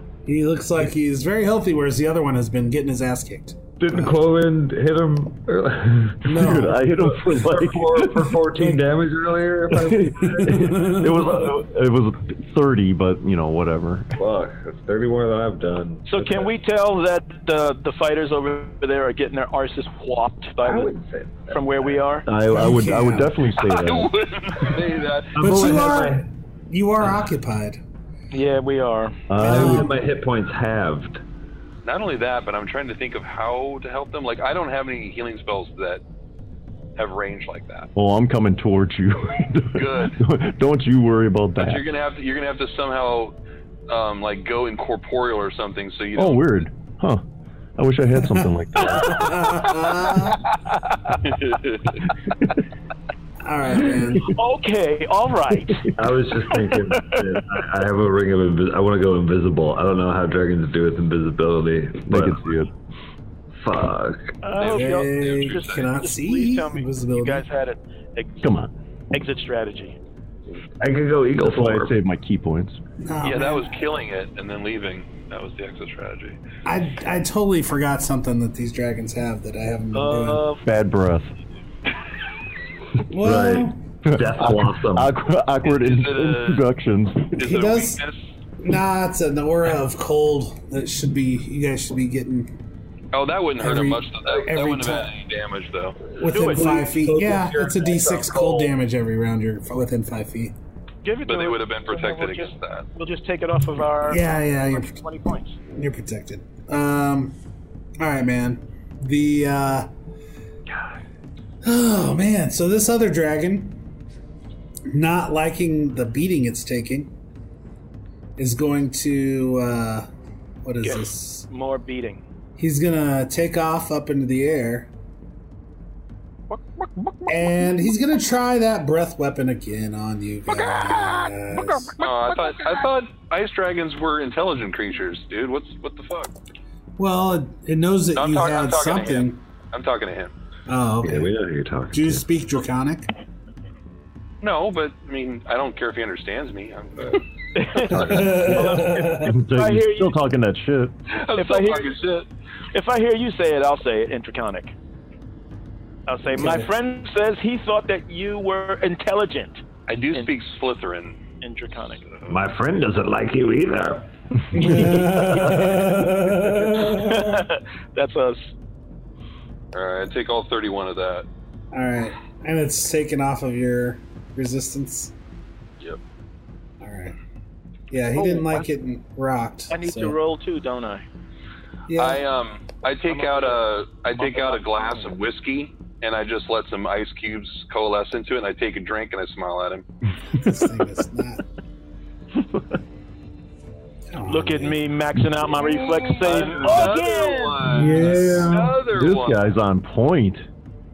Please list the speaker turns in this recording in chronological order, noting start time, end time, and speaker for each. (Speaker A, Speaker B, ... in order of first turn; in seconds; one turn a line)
Speaker A: 0.3-4.2
Speaker B: 3.8-11.1
Speaker A: 6.2-6.8
Speaker C: 6.3-8.3
Speaker C: 9.7-14.2
Speaker A: 10.4-11.4
Speaker B: 14.2-16.5
Speaker D: 16.1-20.9
Speaker B: 20.6-22.0
Speaker D: 21.5-22.3
Speaker C: 22.3-24.1
Speaker A: 22.5-23.4
Speaker E: 23.6-25.4
Speaker B: 25.4-26.3
Speaker A: 25.4-27.8
Speaker D: 28.3-29.2
Speaker C: 29.3-29.9
Speaker B: 29.4-31.2
Speaker A: 29.4-30.0
Speaker E: 31.9-36.0
Speaker E: 37.0-37.9
Speaker C: 38.0-41.9
Speaker E: 39.8-40.2
Speaker E: 41.6-43.4
Speaker E: 43.9-46.5
Speaker C: 46.1-47.2
Speaker C: 47.8-49.4
Speaker A: 48.9-50.4
Speaker D: 50.5-51.2
Speaker E: 51.2-52.0
Speaker A: 53.4-54.4
Speaker D: 54.3-55.9
Speaker B: 56.0-62.4
Speaker D: 56.5-57.4
Speaker C: 62.1-62.7
Speaker B: 63.6-64.3
Speaker D: 64.4-68.5
Speaker E: 64.6-65.9
Speaker A: 64.6-67.5
Speaker C: 68.4-68.7
Speaker D: 69.1-70.0
Speaker B: 70.8-71.9
Speaker C: 71.4-72.8
Speaker A: 73.0-73.9
Speaker E: 73.2-76.4
Speaker A: 76.7-80.4
Speaker D: 79.9-80.7
Speaker C: 80.6-81.3
Speaker A: 83.1-83.8
Speaker B: 83.2-85.2
Speaker C: 83.2-87.4
Speaker E: 85.7-86.7
Speaker E: 87.4-88.2
Speaker A: 87.4-88.0
Speaker A: 88.6-92.5
Speaker E: 93.1-96.0
Speaker A: 93.6-95.1
Speaker B: 96.2-98.8
Speaker A: 96.2-100.5
Speaker D: 96.3-96.9
Speaker D: 101.0-105.6
Speaker E: 101.2-102.9
Speaker A: 104.0-105.0
Speaker A: 105.7-107.3
Speaker A: 108.0-109.9
Speaker A: 111.6-113.8
Speaker A: 114.9-117.1
Speaker A: 118.4-120.1
Speaker A: 120.6-121.5
Speaker D: 120.8-122.2
Speaker A: 122.6-124.9
Speaker D: 126.5-127.3
Speaker A: 127.3-132.0
Speaker D: 131.7-132.0
Speaker E: 132.0-136.3
Speaker A: 137.0-139.4
Speaker E: 138.2-140.3
Speaker A: 140.7-141.4
Speaker B: 141.0-142.2
Speaker A: 141.9-143.1
Speaker E: 144.4-147.2
Speaker D: 147.5-150.2
Speaker A: 147.8-149.3
Speaker B: 147.9-148.6
Speaker C: 148.2-151.0
Speaker E: 151.1-152.2
Speaker D: 151.3-151.9
Speaker D: 152.7-154.7
Speaker D: 156.1-160.3
Speaker A: 156.4-156.7
Speaker E: 159.9-161.2
Speaker D: 161.4-162.0
Speaker E: 162.1-162.4
Speaker B: 162.3-164.8
Speaker A: 164.5-167.4
Speaker D: 165.4-168.5
Speaker E: 169.7-171.3
Speaker A: 171.7-175.1
Speaker A: 176.8-177.2
Speaker A: 177.9-180.2
Speaker D: 178.1-178.7
Speaker D: 179.7-181.1
Speaker A: 181.9-182.2
Speaker E: 182.0-189.8
Speaker D: 183.1-185.2
Speaker A: 190.3-191.4
Speaker C: 192.3-192.8
Speaker A: 194.1-194.8
Speaker D: 194.3-197.9
Speaker E: 195.7-199.4
Speaker A: 197.7-198.8
Speaker C: 198.0-200.5